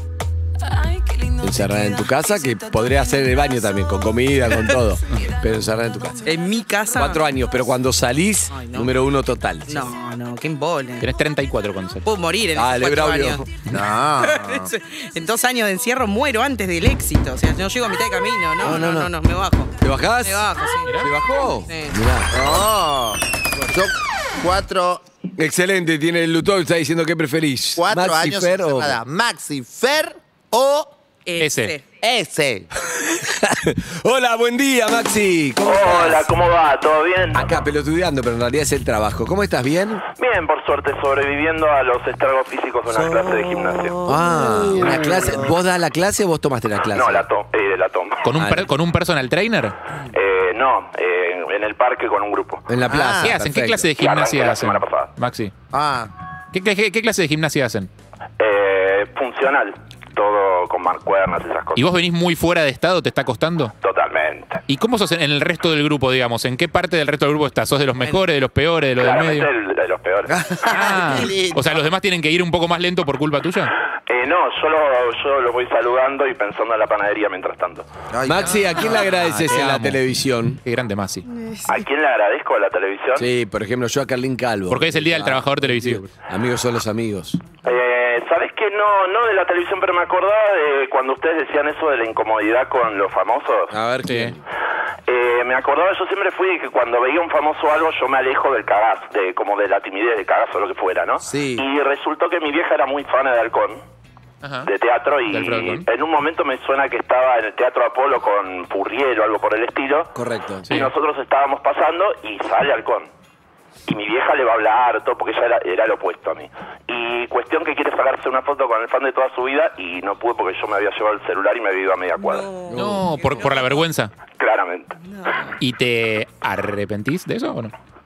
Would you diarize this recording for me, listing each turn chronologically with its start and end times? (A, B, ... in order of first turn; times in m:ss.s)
0:01.4-0:06.3 A
0:06.2-0:07.2 B
0:07.0-0:09.8 A
0:08.5-0:08.9 B
0:09.7-0:11.1 B
0:11.0-0:12.1 C
0:12.0-0:13.4 B
0:12.6-0:13.5 A
0:13.7-0:14.7 D
0:14.2-0:21.0 B
0:18.6-0:19.1 A
0:19.8-0:20.5 A
0:21.0-0:22.6 A
0:21.7-0:22.0 B
0:22.3-0:25.0 D
0:25.4-0:29.0 A
0:27.8-0:30.9 D
0:31.3-0:31.8 B
0:31.4-0:31.8 C
0:32.0-0:32.7 D
0:32.9-0:36.3 A
0:35.6-0:37.5 E
0:37.3-0:40.0 A
0:40.2-0:44.1 E
0:43.0-0:43.3 D
0:44.0-0:47.3 A
0:44.1-0:45.5 D
0:46.9-0:48.2 E
0:48.2-0:49.8 C
0:48.4-0:48.7 A
0:50.1-0:52.7 E
0:52.7-0:53.9 A
0:52.9-0:53.4 D
0:53.2-0:55.5 C
0:54.0-0:55.1 E
0:55.7-0:56.1 D
0:56.5-0:57.9 C
0:58.4-1:01.9 E
1:01.8-1:03.7 C
1:03.8-1:04.6 E
1:04.7-1:09.5 C
1:09.0-1:10.4 E
1:10.3-1:11.8 D
1:10.7-1:13.7 C
1:14.1-1:17.9 E
1:18.1-1:18.8 D
1:18.2-1:20.6 A
1:19.0-1:20.0 C
1:20.6-1:21.2 C
1:21.3-1:21.8 B
1:21.7-1:23.3 E
1:23.2-1:27.4 A
1:24.7-1:26.1 C
1:27.6-1:33.7 E
1:33.7-1:34.4 A
1:34.1-1:34.3 C
1:35.1-1:43.8 E
1:41.2-1:41.6 D
1:44.4-1:44.7 C
1:44.7-1:50.1 E
1:45.3-1:45.8 C
1:50.2-1:50.7 A
1:50.7-1:53.1 E
1:53.9-2:02.5 E
2:02.2-2:03.9 B
2:02.7-2:03.1 A
2:02.7-2:04.1 C
2:04.4-2:04.9 E
2:05.0-2:05.6 B
2:05.6-2:07.7 C